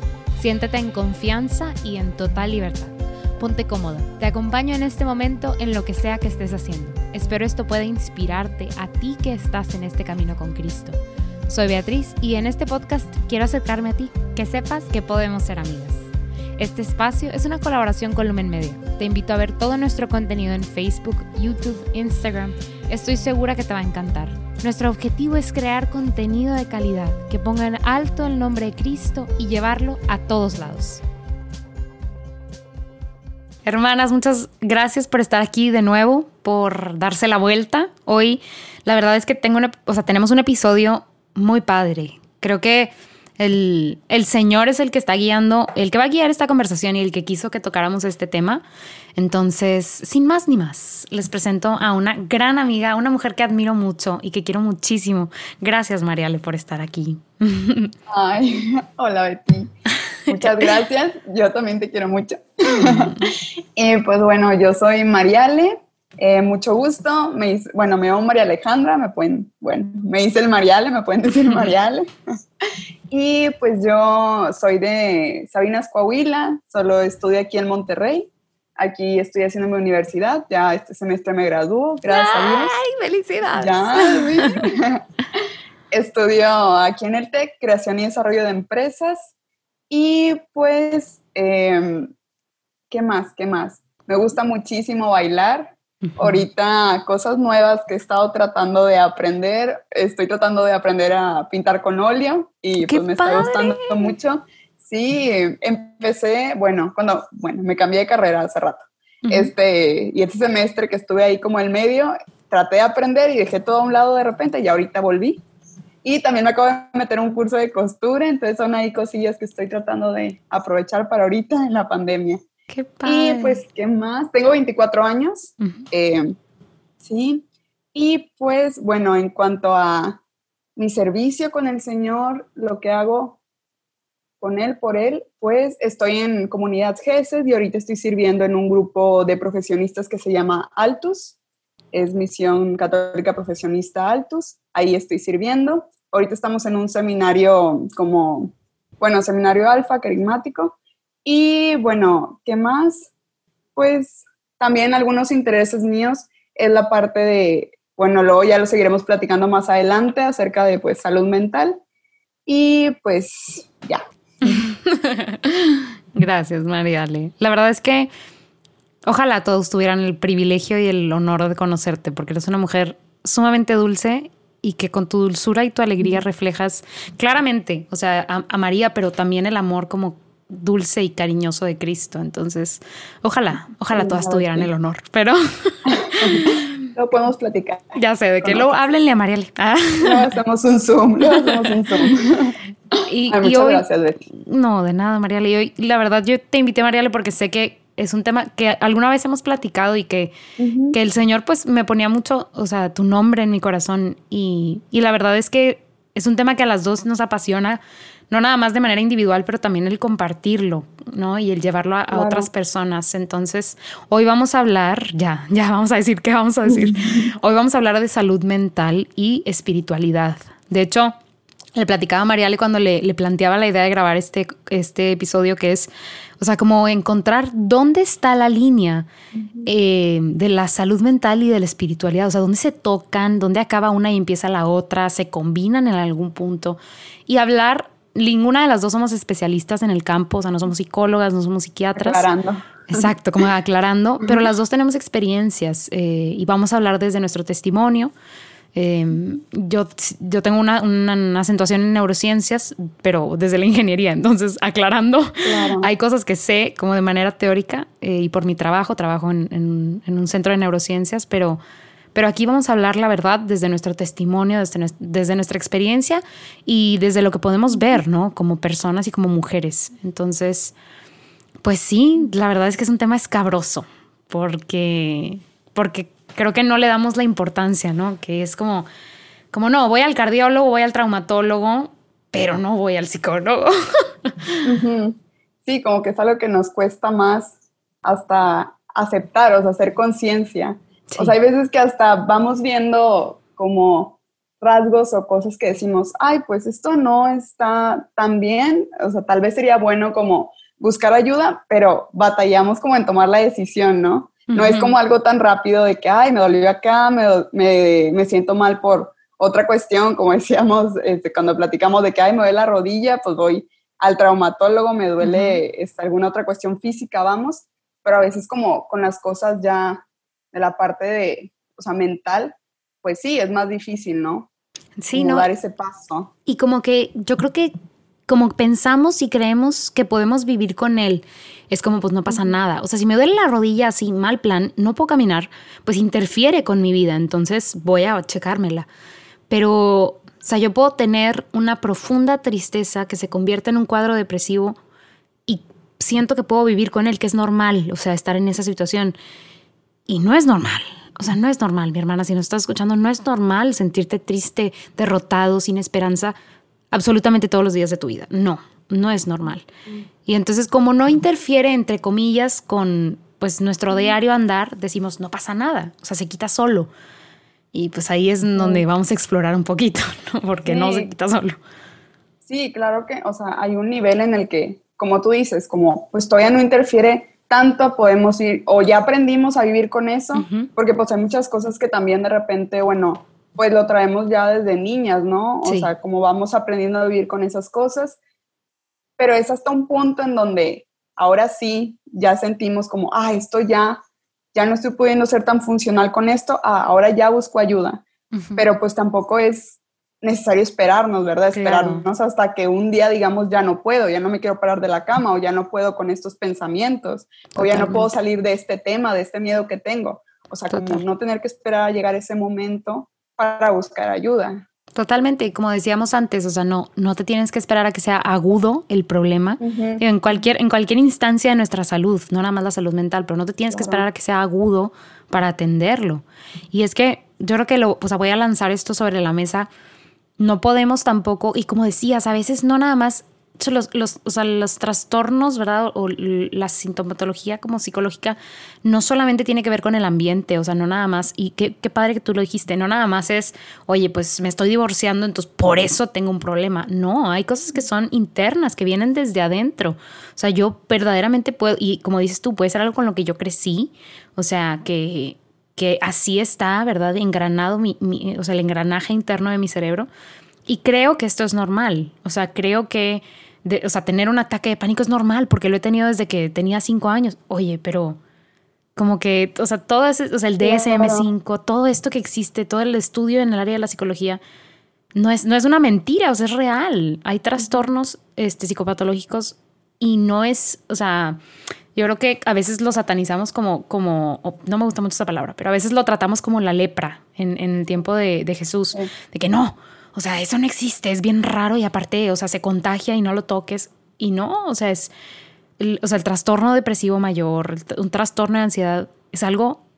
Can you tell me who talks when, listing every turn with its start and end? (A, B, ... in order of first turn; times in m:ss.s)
0:00.4-0:31.0 A
0:33.6-0:48.6 A
0:49.2-0:57.9 A
0:58.1-0:59.7 B
1:00.2-1:00.7 A
1:00.3-1:12.1 B
1:02.8-1:03.3 A
1:13.1-1:22.7 B
1:22.0-1:24.7 A
1:23.6-1:25.0 B
1:25.9-1:29.3 B
1:29.9-1:32.1 B
1:32.9-1:55.4 B
1:36.0-1:36.4 A
1:42.9-1:44.1 A
1:49.2-1:49.5 A
1:56.0-2:02.4 B
2:02.7-2:03.6 A
2:03.0-2:06.4 B
2:07.0-2:10.2 B
2:10.8-2:13.4 B
2:14.4-2:21.4 B
2:21.9-2:33.1 B
2:33.8-2:41.8 B
2:42.4-2:44.6 B
2:44.4-2:48.1 A
2:49.0-3:06.8 A
3:03.9-3:04.7 B
3:05.9-3:08.7 B
3:07.9-3:10.2 A
3:10.0-3:12.6 B
3:11.3-3:11.6 A
3:13.0-3:20.3 A
3:13.3-3:14.2 B
3:20.6-3:21.0 B
3:20.9-3:41.1 A
3:32.1-3:32.5 B
3:36.7-3:37.3 B
3:41.7-3:45.9 A
3:46.4-3:49.1 A
3:49.4-3:49.6 B
3:49.6-4:02.3 A
4:01.9-4:03.0 B
4:02.9-4:08.1 A
4:08.7-4:21.6 A
4:15.4-4:15.9 B
4:22.1-4:30.7 A
4:31.6-4:38.9 A
4:39.5-4:44.6 A
4:44.6-5:24.5 B
5:04.5-5:04.9 A
5:15.2-5:15.6 A
5:25.0-5:25.5 A
5:25.1-5:26.3 B
5:26.4-5:27.7 A
5:28.3-5:38.9 A
5:39.5-5:44.8 A
5:45.5-5:49.2 A
5:50.1-5:56.4 A
5:56.9-5:59.6 A
6:00.2-6:06.9 A
6:07.7-6:11.6 A
6:08.6-6:08.8 B
6:10.6-6:11.1 B
6:12.4-6:28.2 B
6:20.3-6:20.7 A
6:25.6-6:25.9 A
6:29.2-6:34.0 B
6:34.5-6:38.0 B
6:38.3-6:38.6 A
6:38.6-6:54.6 B
6:41.5-6:42.0 A
6:47.6-6:48.1 A
6:50.7-6:51.0 A
6:54.9-7:09.7 A
6:59.6-7:00.0 B
7:03.7-7:04.0 B
7:10.4-7:40.1 A
7:40.6-7:48.2 A
7:49.0-7:54.4 A
7:50.6-7:51.3 B
7:55.1-8:01.4 A
8:01.9-8:15.1 A
8:15.8-8:19.8 A